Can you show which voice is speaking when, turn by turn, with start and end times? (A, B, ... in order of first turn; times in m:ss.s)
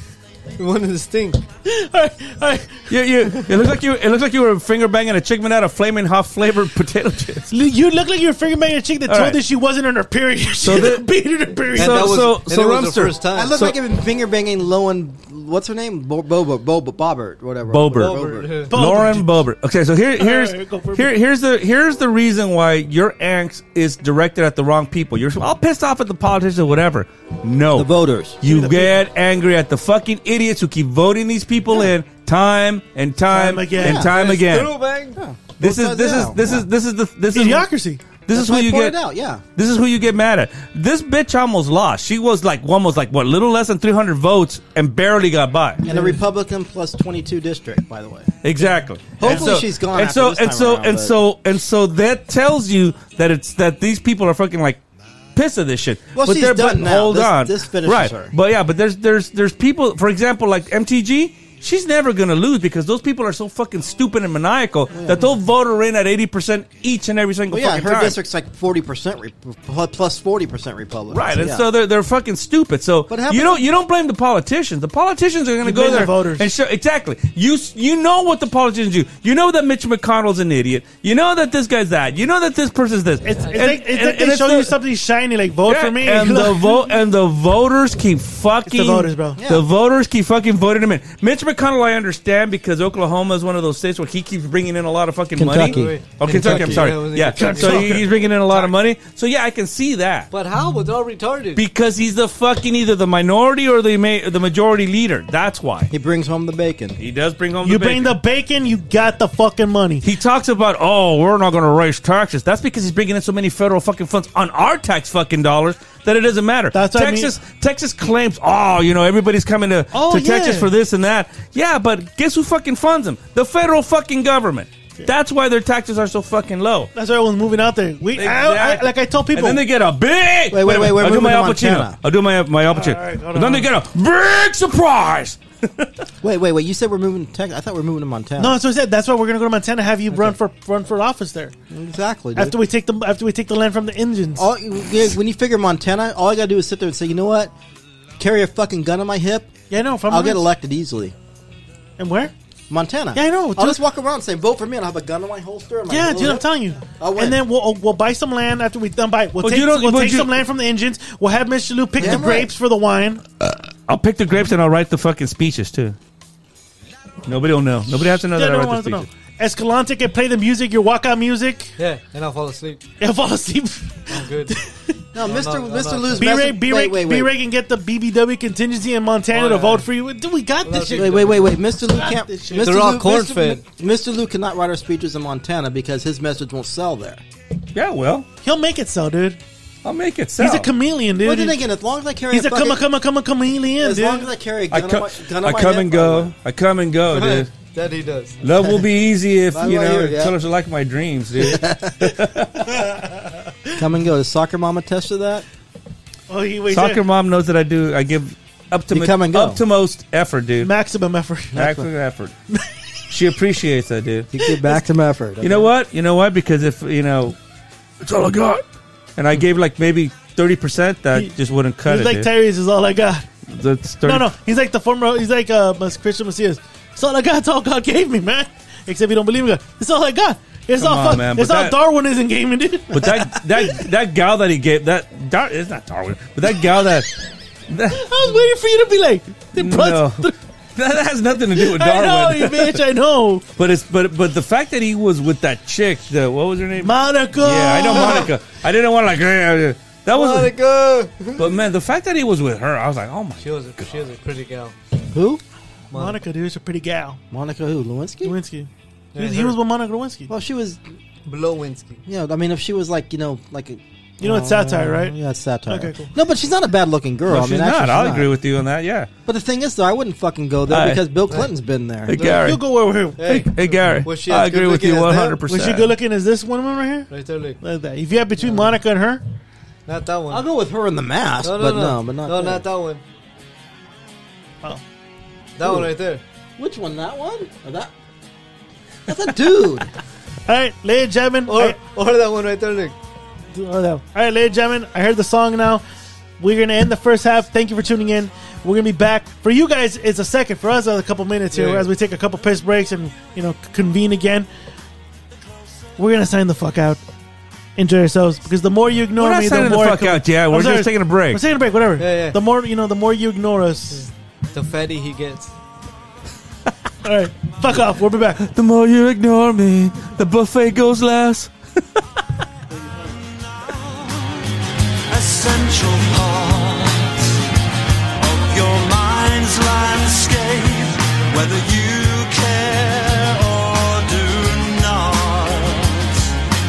0:00.6-0:01.4 A
0:01.6-0:02.9 B
0:02.9-0:07.5 C
0:07.5-0:12.2 B
0:09.1-0:09.4 C
0:10.6-0:11.1 C
0:11.7-0:13.8 C
0:11.7-0:13.5 A
0:13.3-0:18.6 D
0:17.7-0:27.9 C
0:17.9-0:18.7 A
0:18.7-0:19.4 B
0:20.2-0:21.1 B
0:27.7-0:28.4 D
0:28.4-0:34.7 C
0:28.4-0:29.0 B
0:33.3-0:34.1 B
0:33.8-0:34.1 D
0:34.0-0:35.2 A
0:35.1-0:36.6 D
0:35.6-0:37.7 C
0:37.3-0:38.0 B
0:38.2-0:39.0 C
0:38.3-0:39.4 D
0:39.6-0:45.8 C
0:45.8-0:48.3 D
0:45.8-0:46.2 B
0:48.4-0:54.8 C
0:49.2-0:51.1 D
0:55.3-1:08.2 C
0:56.1-0:58.3 D
1:04.9-1:05.3 D
1:07.5-1:11.6 D
1:11.1-1:24.8 C
1:13.1-1:13.6 D
1:15.6-1:16.5 B
1:23.2-1:26.9 B
1:25.6-1:40.3 C
1:28.6-1:29.4 B
1:29.4-1:29.7 D
1:35.4-1:36.8 D
1:35.4-1:38.6 A
1:37.4-1:38.1 B
1:40.3-1:41.6 A
1:41.6-1:45.9 C
1:45.9-1:47.0 D
1:47.0-1:48.2 C
1:47.6-1:50.1 B
1:50.0-2:06.9 C
1:56.7-1:57.3 B
1:59.9-2:00.7 B
2:06.9-2:09.6 B
2:08.1-2:16.1 C
2:10.5-2:12.0 D
2:12.7-2:13.7 B
2:16.2-2:18.6 D
2:18.4-2:21.5 B
2:21.7-2:22.6 D
2:22.4-2:24.5 B
2:24.4-2:27.5 D
2:28.2-2:29.5 D
2:29.7-2:30.4 B
2:30.1-2:31.1 D
2:32.0-2:32.3 B
2:32.7-2:36.4 D
2:33.1-2:33.8 B
2:35.9-2:43.2 B
2:37.0-2:37.4 D
2:39.4-2:40.3 C
2:42.0-2:42.5 D
2:43.9-2:46.0 C
2:47.2-2:49.1 C
2:48.3-2:51.8 B
2:51.8-2:52.8 A
2:53.0-2:55.0 B
2:54.1-2:54.5 A
2:55.1-2:57.3 D
2:55.2-2:56.3 A
2:56.2-3:02.8 B
2:59.3-2:59.8 A
3:00.6-3:01.6 A
3:00.9-3:07.2 D
3:02.5-3:03.6 A
3:07.7-3:08.3 C
3:08.4-3:09.4 B
3:09.8-3:10.7 C
3:10.4-3:11.6 B
3:11.2-3:12.8 D
3:12.3-3:14.3 B
3:13.8-3:16.3 D
3:14.7-3:17.5 C
3:17.1-3:18.4 A
3:18.4-3:22.7 C
3:18.5-3:18.8 D
3:19.5-3:20.3 D
3:21.4-3:22.2 D
3:22.7-3:23.8 B
3:23.8-3:25.4 D
3:26.3-3:27.0 B
3:26.7-3:30.7 C
3:28.9-3:29.6 D
3:30.6-3:31.6 B
3:31.5-3:32.3 C
3:31.5-3:31.9 D
3:33.1-3:34.3 C
3:34.3-3:35.7 D
3:34.4-3:34.8 B
3:35.4-3:37.4 C
3:38.0-3:38.6 C
3:39.2-3:42.3 C
3:41.8-3:43.3 B
3:43.5-3:44.3 C
3:44.0-3:53.0 B
3:50.8-3:51.8 C
3:52.9-3:57.1 C
3:57.7-3:58.1 C
3:57.9-4:00.4 B
3:59.5-4:02.8 C
4:01.5-4:03.4 B
4:03.6-4:10.5 C
4:06.8-4:08.3 B
4:10.1-4:11.5 A
4:11.4-4:13.9 C
4:13.4-4:14.7 A
4:15.1-4:15.4 D
4:15.9-4:16.2 A
4:15.9-4:17.2 B
4:17.3-4:18.4 D
4:18.2-4:20.3 B
4:19.1-4:19.6 A
4:20.3-4:20.8 D
4:21.2-4:22.0 A
4:22.1-4:28.3 D
4:24.2-4:25.2 B
4:25.7-4:26.1 B
4:27.2-4:29.1 C
4:29.2-4:32.1 D
4:30.7-4:31.0 C
4:32.1-4:32.6 C
4:32.2-4:33.2 B
4:33.2-4:35.4 A
4:33.2-4:35.9 C
4:35.5-4:37.1 B
4:37.1-4:37.6 A
4:37.6-4:39.2 B
4:38.4-4:38.7 A
4:39.9-4:40.4 A
4:40.3-4:42.6 D
4:41.4-4:43.0 A
4:45.6-4:46.2 A
4:45.6-4:45.9 D
4:46.6-4:47.9 D
4:49.1-4:49.9 D
4:50.5-4:51.8 B
4:51.5-4:52.9 A
4:53.5-4:55.8 B
4:56.4-5:04.5 B
5:01.5-5:01.9 A
5:06.0-5:07.0 B
5:07.8-5:14.0 B
5:09.2-5:11.4 C
5:12.0-5:12.4 A
5:13.9-5:15.5 A
5:17.0-5:18.4 B
5:18.4-5:22.0 C
5:23.0-5:24.5 E
5:25.1-5:27.4 E
5:28.2-5:36.3 E